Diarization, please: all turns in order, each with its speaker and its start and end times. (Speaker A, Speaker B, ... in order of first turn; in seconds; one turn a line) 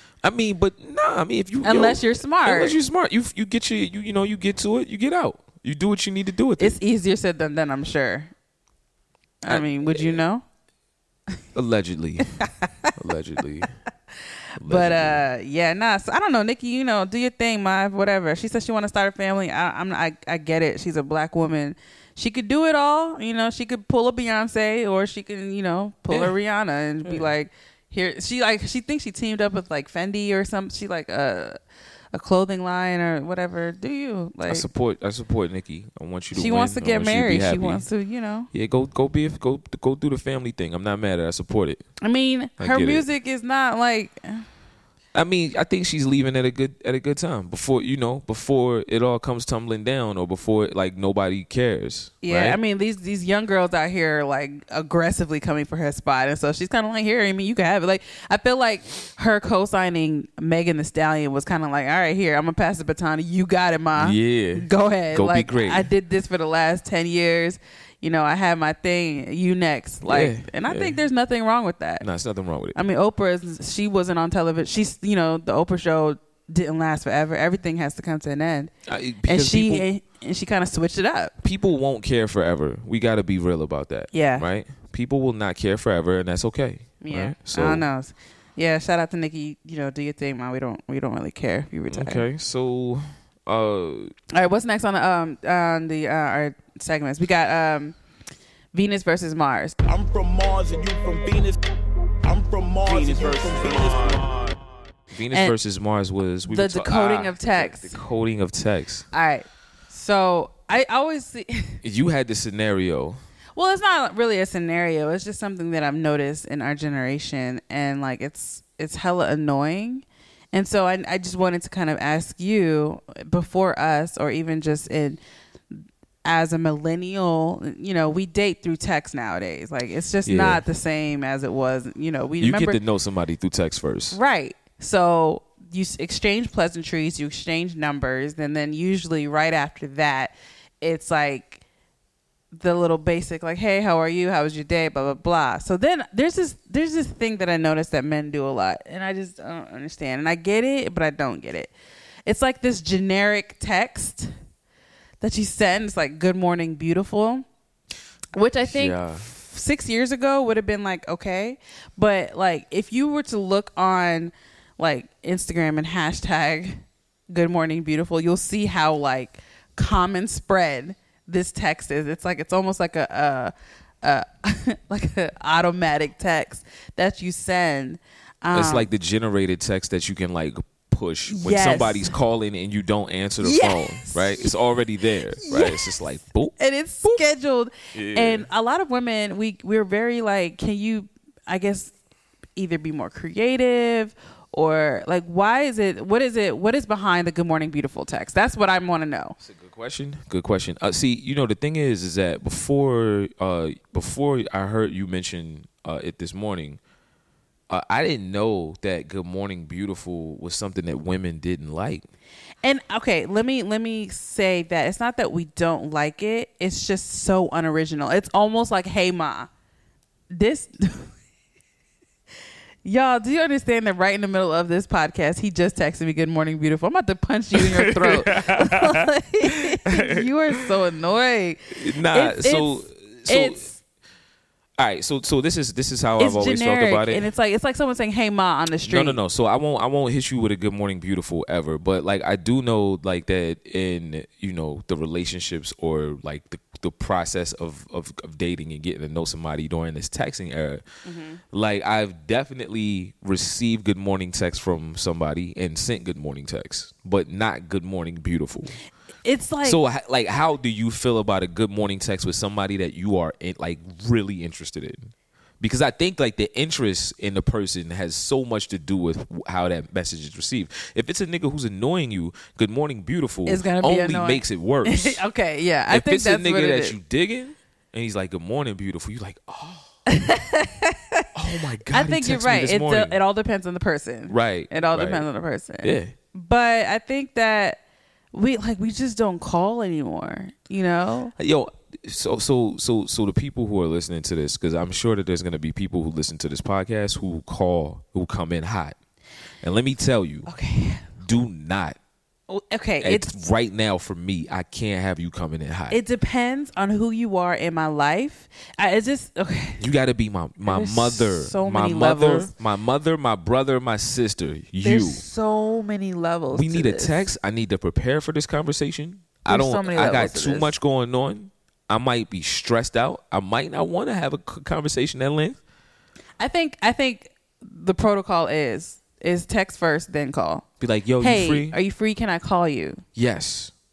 Speaker A: 0.2-6.8
Speaker B: 1.6-2.8
Speaker B: 6.6-8.3
Speaker B: 9.4-10.4
Speaker A: 9.5-10.2
Speaker A: 11.5-12.4
Speaker B: 12.4-12.9
Speaker A: 12.9-13.7
Speaker A: 14.6-15.2
Speaker B: 14.6-31.6
Speaker A: 27.0-27.3
Speaker B: 32.1-34.6
Speaker A: 34.5-37.8
Speaker B: 36.3-38.5
Speaker A: 38.5-41.8
Speaker B: 42.0-44.4
Speaker A: 42.6-43.0
Speaker A: 45.1-52.6
Speaker B: 52.2-72.0
Speaker A: 64.0-65.9
Speaker A: 70.0-71.0
Speaker A: 72.0-72.8
Speaker B: 72.7-78.7
Speaker A: 78.8-79.8
Speaker B: 79.2-81.3
Speaker A: 81.4-87.8
Speaker B: 84.1-84.5
Speaker B: 87.0-92.2
Speaker A: 91.9-94.1
Speaker B: 94.3-98.0
Speaker B: 98.7-99.8
Speaker C: 99.8-101.6
Speaker C: 102.2-104.3
Speaker A: 105.1-109.1
Speaker B: 105.3-105.5
Speaker B: 106.5-108.0
Speaker B: 109.1-111.8
Speaker A: 111.8-113.2
Speaker B: 113.5-125.2
Speaker B: 125.7-132.8
Speaker A: 130.2-130.6
Speaker A: 132.4-134.2
Speaker B: 134.1-141.6
Speaker B: 142.5-151.7
Speaker B: 152.2-154.3
Speaker B: 155.2-157.4
Speaker B: 158.3-178.9
Speaker A: 158.6-159.2
Speaker A: 178.5-187.2
Speaker B: 181.3-182.1
Speaker B: 183.4-184.5
Speaker B: 185.4-185.9
Speaker B: 186.6-191.9
Speaker A: 187.9-188.4
Speaker B: 192.6-199.3
Speaker A: 199.4-206.8
Speaker A: 207.7-212.1
Speaker B: 212.6-219.5
Speaker B: 220.3-221.1
Speaker B: 222.8-233.8
Speaker A: 227.5-229.0
Speaker A: 229.8-230.3
Speaker A: 231.7-233.7
Speaker A: 234.8-237.3
Speaker B: 236.2-239.2
Speaker A: 238.9-250.8
Speaker B: 251.0-251.4
Speaker A: 251.5-258.7
Speaker B: 259.2-259.8
Speaker A: 259.6-275.2
Speaker B: 273.4-276.9
Speaker A: 275.9-279.9
Speaker B: 280.1-281.2
Speaker A: 281.3-283.2
Speaker B: 281.9-287.8
Speaker A: 284.3-285.2
Speaker A: 285.8-286.1
Speaker B: 288.3-291.3
Speaker A: 291.4-299.0
Speaker A: 299.6-300.5
Speaker B: 300.5-301.1
Speaker A: 301.2-302.0
Speaker B: 302.5-303.3
Speaker A: 303.0-306.0
Speaker B: 305.9-309.8
Speaker A: 309.8-315.2
Speaker B: 310.6-312.5
Speaker B: 314.8-317.3
Speaker A: 316.5-325.6
Speaker B: 319.5-320.7
Speaker B: 326.4-330.6
Speaker A: 330.8-331.8
Speaker B: 331.2-333.0
Speaker A: 333.1-333.7